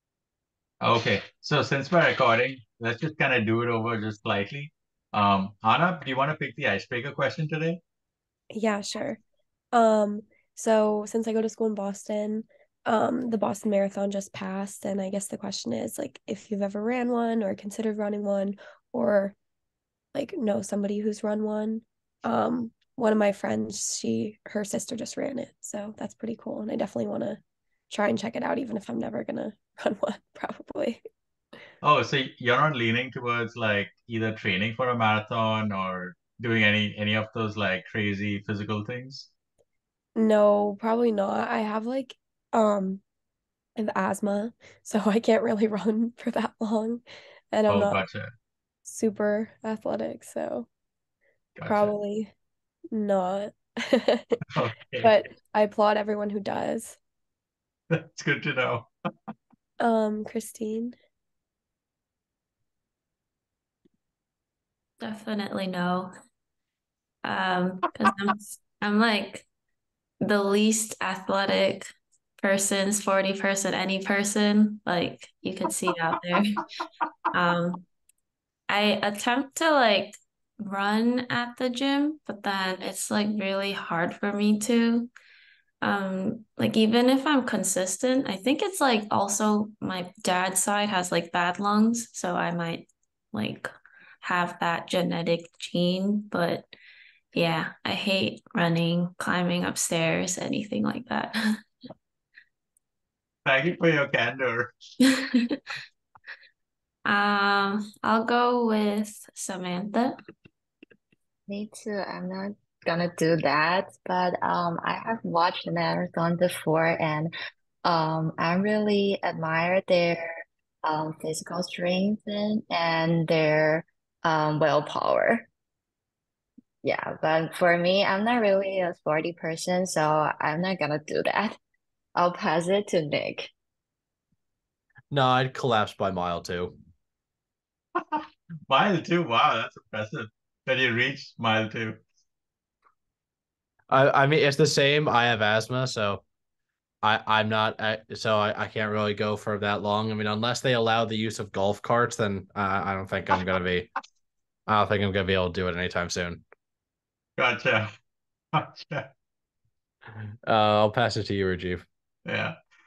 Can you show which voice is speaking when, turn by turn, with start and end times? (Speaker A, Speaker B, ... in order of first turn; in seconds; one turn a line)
Speaker A: 0.8-7.8
Speaker B: 8.5-9.2
Speaker B: 9.7-19.3
Speaker B: 20.1-31.0
Speaker A: 31.8-39.3
Speaker B: 40.1-43.0
Speaker B: 43.8-48.0
Speaker A: 47.7-48.3
Speaker B: 48.8-50.7
Speaker A: 51.5-52.0
Speaker B: 51.7-52.3
Speaker B: 52.9-54.4
Speaker A: 54.5-55.1
Speaker B: 55.0-57.0
Speaker A: 57.9-58.9
Speaker B: 59.8-61.0
Speaker C: 65.0-66.1
Speaker C: 67.2-69.5
Speaker C: 70.2-71.9
Speaker C: 72.4-76.7
Speaker C: 77.3-77.9
Speaker C: 78.7-85.1
Speaker C: 85.8-93.7
Speaker C: 94.2-96.7
Speaker C: 97.3-101.4
Speaker A: 103.5-104.7
Speaker C: 107.1-110.2
Speaker D: 111.5-117.3
Speaker D: 117.8-120.3
Speaker D: 120.8-125.5
Speaker D: 126.8-131.6
Speaker D: 132.2-133.5
Speaker E: 135.1-136.7
Speaker A: 138.0-142.0
Speaker E: 143.9-146.2
Speaker E: 147.0-153.9
Speaker E: 154.7-156.4
Speaker A: 157.4-157.9
Speaker A: 158.5-159.1
Speaker E: 160.4-161.8
Speaker A: 162.2-162.6